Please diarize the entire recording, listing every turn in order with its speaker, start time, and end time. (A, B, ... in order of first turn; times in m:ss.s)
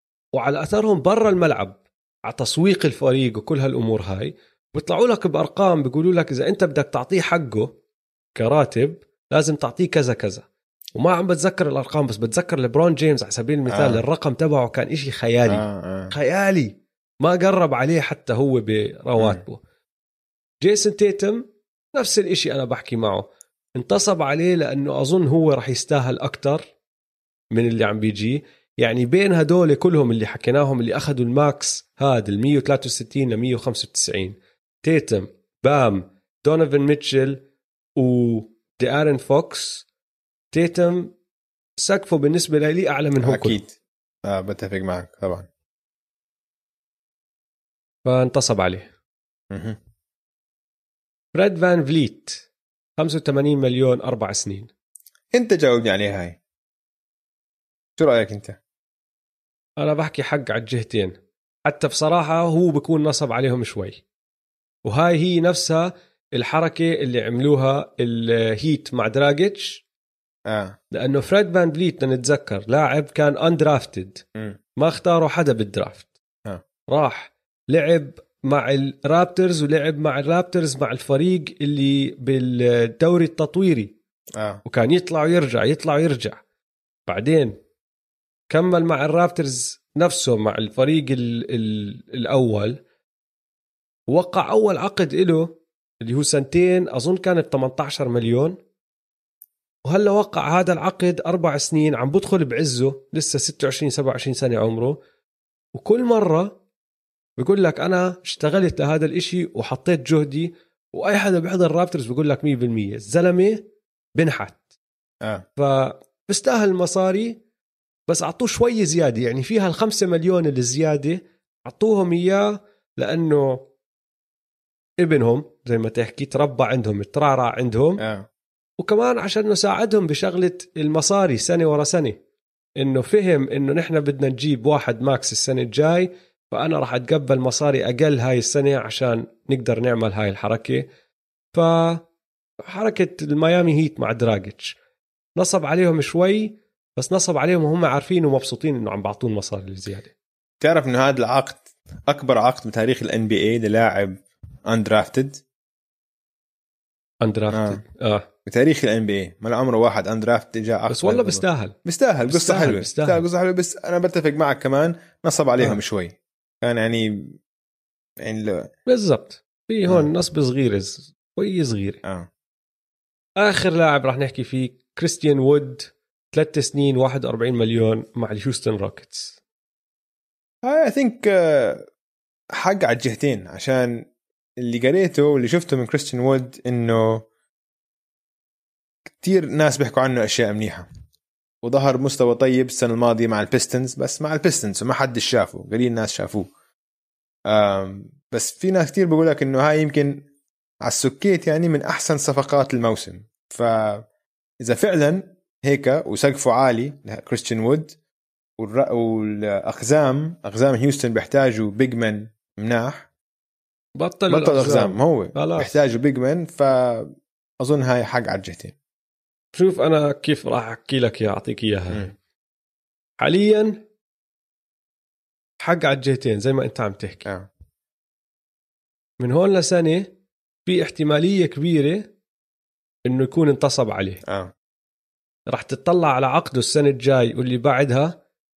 0:00.3-0:07.7 A
0:08.4-0:19.6 A
0:13.7-0:14.0 B
0:15.5-0:16.1 B
0:20.6-0:21.4 A
0:21.9-0:23.2 A
0:23.7-0:26.7 A
0:27.5-0:37.4 A
0:38.0-0:39.8 A
0:40.5-0:41.1 A
0:41.8-0:43.6 A
0:43.2-0:45.5 B
0:48.0-0:48.9 A
0:49.5-0:49.8 B
0:51.3-0:52.5 A
0:53.0-0:54.7 A
0:55.3-0:56.4 B
0:58.0-0:58.6 B
0:59.8-1:01.1 A
1:01.6-1:04.0 A
1:04.8-1:09.8 A
1:10.4-1:10.8 B
1:10.9-1:14.2 A
1:14.8-1:16.1 A
1:16.9-1:23.9 A
1:24.3-1:24.6 B
1:24.6-1:26.4 A
1:27.1-1:27.5 A
1:28.5-1:32.8 A
1:34.1-1:38.6 A
1:39.8-1:45.0 A
1:45.7-1:46.6 A
1:47.4-1:54.6 A
1:55.6-1:57.4 A
1:58.1-2:03.6 A
2:05.0-2:08.0 A
2:08.0-2:08.3 B
2:08.8-2:12.2 A
2:12.8-2:20.9 A
2:21.5-2:22.0 A
2:22.6-2:24.8 A
2:25.4-2:30.1 A
2:30.6-2:35.4 B
2:37.2-2:38.3 A
2:37.5-2:37.8 B
2:38.4-2:47.4 B
2:40.9-2:41.7 A
2:42.3-2:43.2 A
2:48.2-2:48.7 B
2:48.9-2:52.0 A
2:52.0-2:52.3 B
2:53.4-2:59.4 A
3:00.6-3:01.8 B
3:02.6-3:07.2 B
3:09.1-3:10.9 B
3:11.6-3:16.5 B
3:17.4-3:20.3 B
3:20.8-3:24.0 B
3:24.6-3:28.0 B
3:28.6-3:33.1 B
3:34.0-3:35.8 A
3:34.3-3:38.7 B
3:39.5-3:42.1 A
3:43.2-3:43.8 A
3:45.6-3:47.3 A
3:49.2-3:50.1 A
3:50.6-3:52.1 A
3:53.0-3:54.2 A
3:54.2-3:54.5 B
3:55.5-3:58.2 A